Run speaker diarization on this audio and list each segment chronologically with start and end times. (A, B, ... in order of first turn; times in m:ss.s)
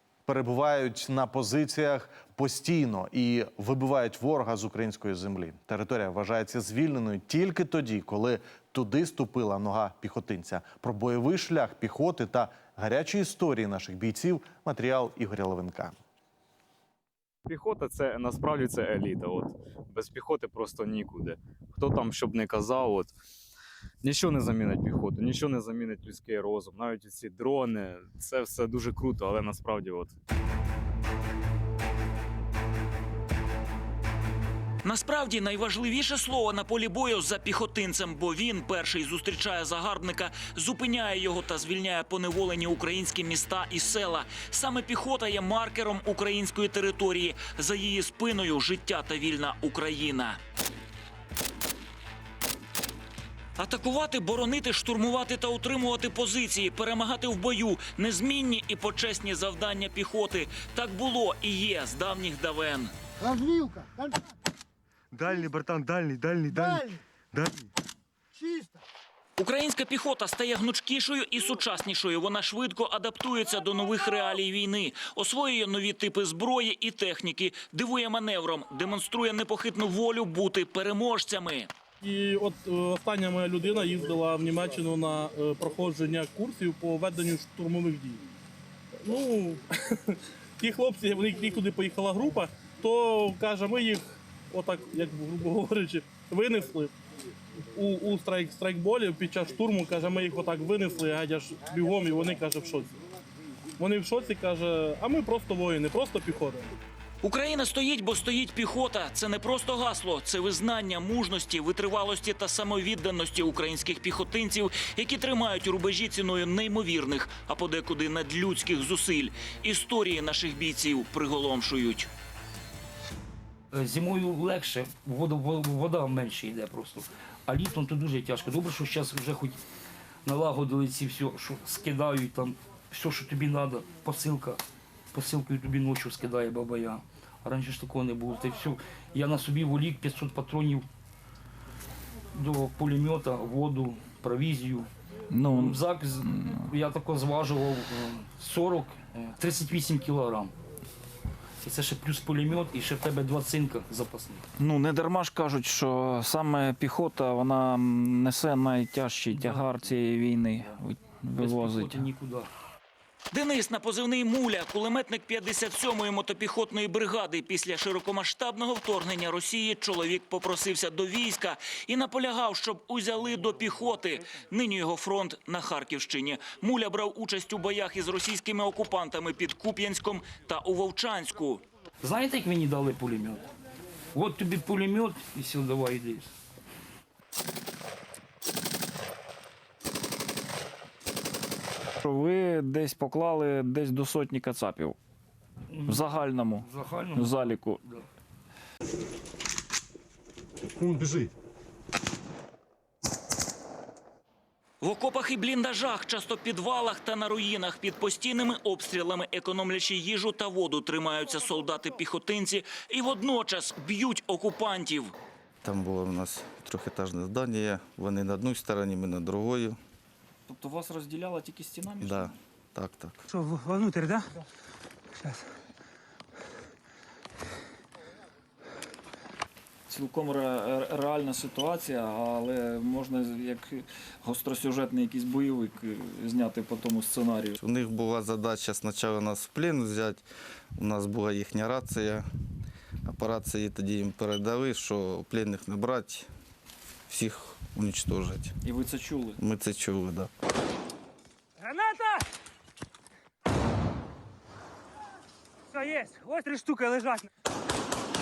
0:00.3-0:16.0 A
0:17.5-0:23.1 B
0:24.0-0:30.1 B
0:34.8-0:50.4 C
0:53.6-1:02.9 C
1:05.1-1:07.6 D
1:09.4-1:21.7 C
1:22.0-1:28.2 E
1:29.0-1:36.9 E
1:37.7-1:43.0 E
1:43.8-1:46.7 E
1:47.2-2:02.1 C
2:03.7-2:09.6 F
2:10.2-2:14.6 F
2:15.1-2:20.8 F
2:22.3-2:24.9 F
2:25.3-2:25.8 G
2:25.4-2:30.5 F
2:26.3-2:26.6 G
2:31.6-2:34.4 F
2:34.6-2:42.1 G
2:39.3-2:39.9 F
2:41.4-2:42.5 F
2:43.3-3:01.6 C
3:02.0-3:03.5 F
3:04.1-3:06.3 F
3:12.0-3:15.0 G
3:15.7-3:18.0 F
3:15.9-3:17.8 G
3:24.8-3:35.1 C
3:35.6-3:39.8 H
3:40.5-3:42.0 G
3:42.0-3:43.2 H
3:43.3-3:44.3 I
3:49.9-3:53.8 G
3:49.9-3:57.6 J
3:56.0-3:56.7 G
3:57.5-4:00.2 H
4:00.8-4:02.2 H
4:03.0-4:06.3 H
4:07.1-4:08.6 H
4:08.7-4:09.3 J
4:09.4-4:10.3 H
4:11.6-4:12.2 I
4:15.7-4:17.3 I